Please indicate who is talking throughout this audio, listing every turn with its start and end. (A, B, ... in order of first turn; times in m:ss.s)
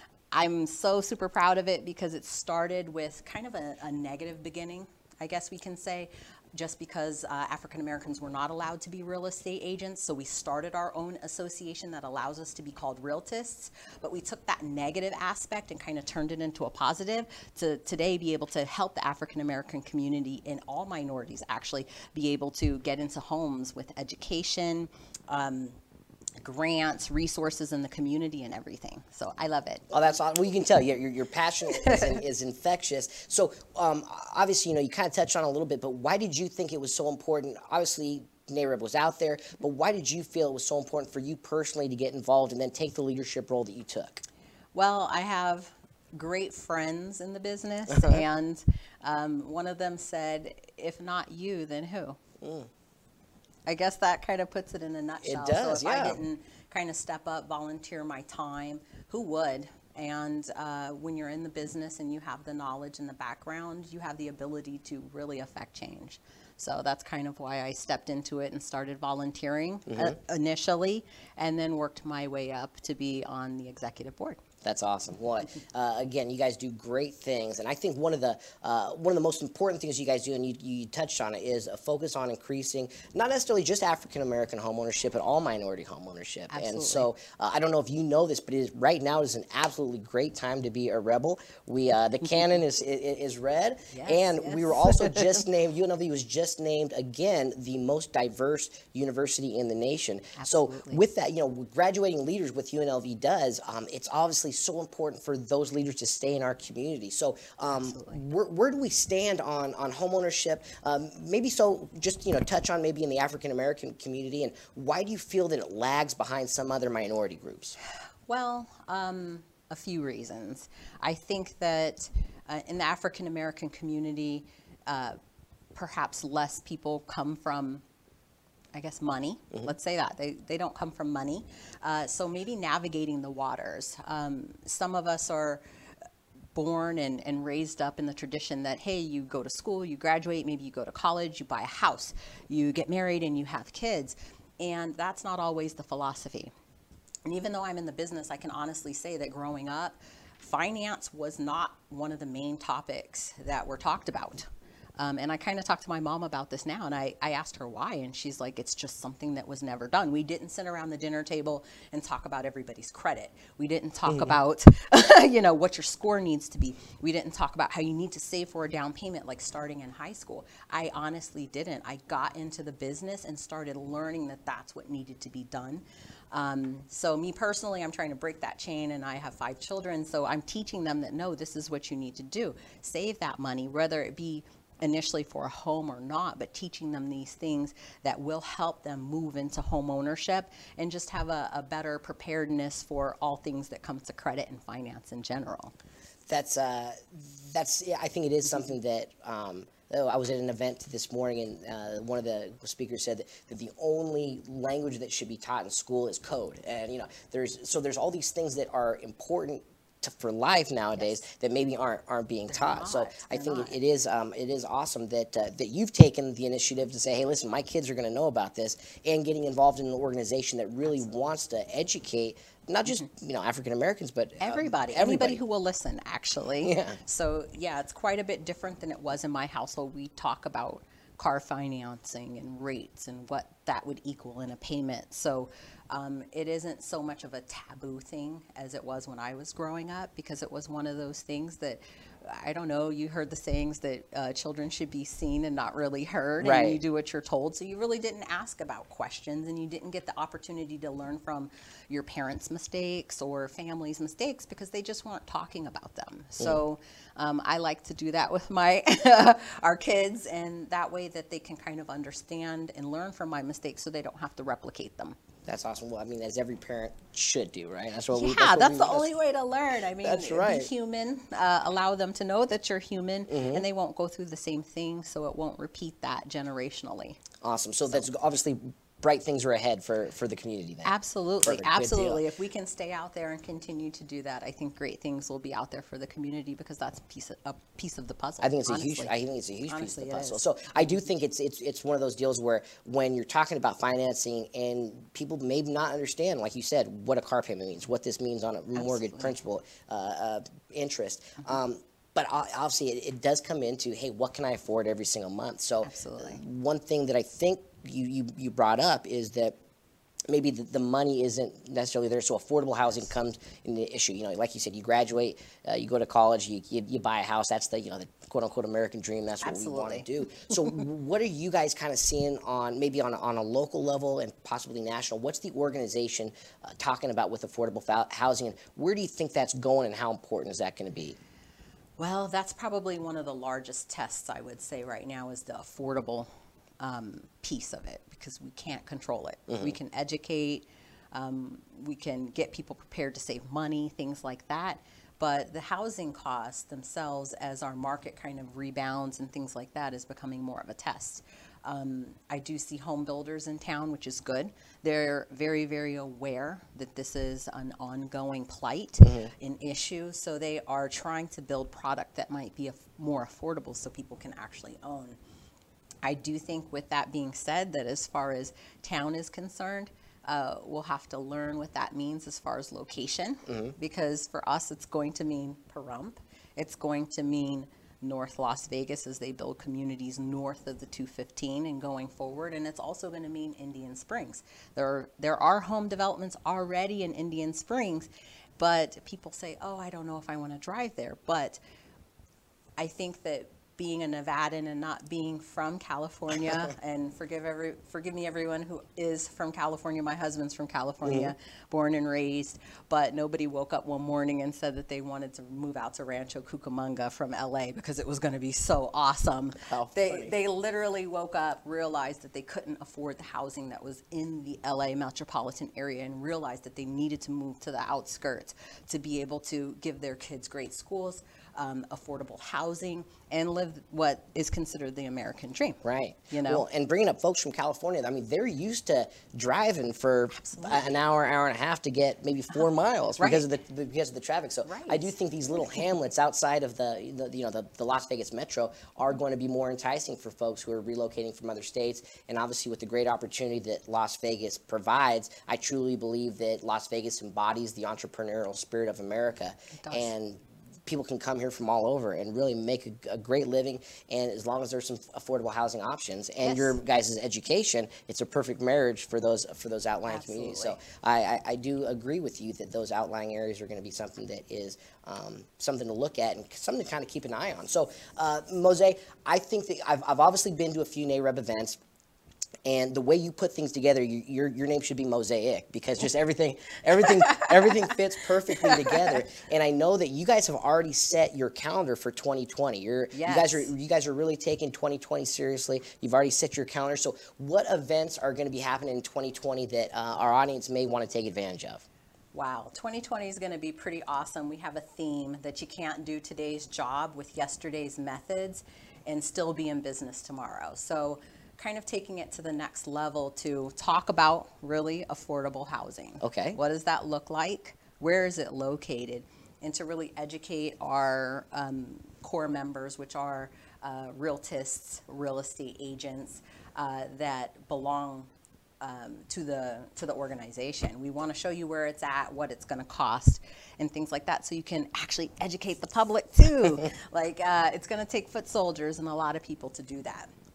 0:00.3-0:25.8 A
0:26.4-0:29.8 A
0:29.9-0:44.2 B
0:31.7-0:32.2 A
0:44.7-0:52.2 A
0:47.9-0:48.2 B
0:52.4-0:52.7 B
0:53.7-1:14.4 A
0:55.2-0:56.2 B
1:09.9-1:10.2 B
1:14.6-1:57.8 B
1:26.5-1:27.1 A
1:33.9-1:35.4 A
1:40.4-1:41.0 A
1:47.7-1:48.2 A
1:58.3-2:05.1 A
2:05.7-2:07.8 A
2:08.7-2:15.6 A
2:16.5-2:26.5 A
2:27.2-2:34.4 A
2:35.0-3:15.7 A
2:44.1-2:44.4 B
3:16.3-3:45.4 B
3:30.9-3:31.2 A
3:32.5-3:33.8 A
3:40.8-3:41.3 A
3:44.4-4:25.2 A
3:46.6-3:47.0 B
4:06.4-4:06.8 B
4:25.4-4:29.1 B
4:28.1-4:37.2 A
4:30.0-4:30.7 B
4:33.3-4:33.6 B
4:37.4-4:40.9 B
4:40.8-4:49.1 A
4:41.4-4:42.2 B
4:48.4-5:09.5 B
4:49.7-4:51.0 A
4:58.7-4:59.4 A
5:05.8-5:06.4 A
5:10.3-5:31.2 B
5:19.4-5:20.7 A
5:32.0-5:36.3 A
5:36.8-6:05.2 A
5:39.5-5:39.8 B
5:59.0-5:59.3 B
6:06.0-6:31.6 A
6:13.5-6:13.7 B
6:32.8-7:06.6 A
6:41.0-6:41.3 B
6:49.7-6:50.3 B
7:05.8-7:51.8 B
7:10.3-7:10.9 A
7:13.2-7:13.4 A
7:14.6-7:15.2 A
7:29.7-7:30.1 A
7:36.4-7:36.8 A
7:40.0-7:40.8 A
7:52.6-8:11.8 B
7:57.0-7:57.9 A
7:58.5-7:59.2 A
8:03.1-8:03.7 A
8:12.3-8:38.3 A
8:26.2-8:26.6 B
8:38.8-8:50.3 A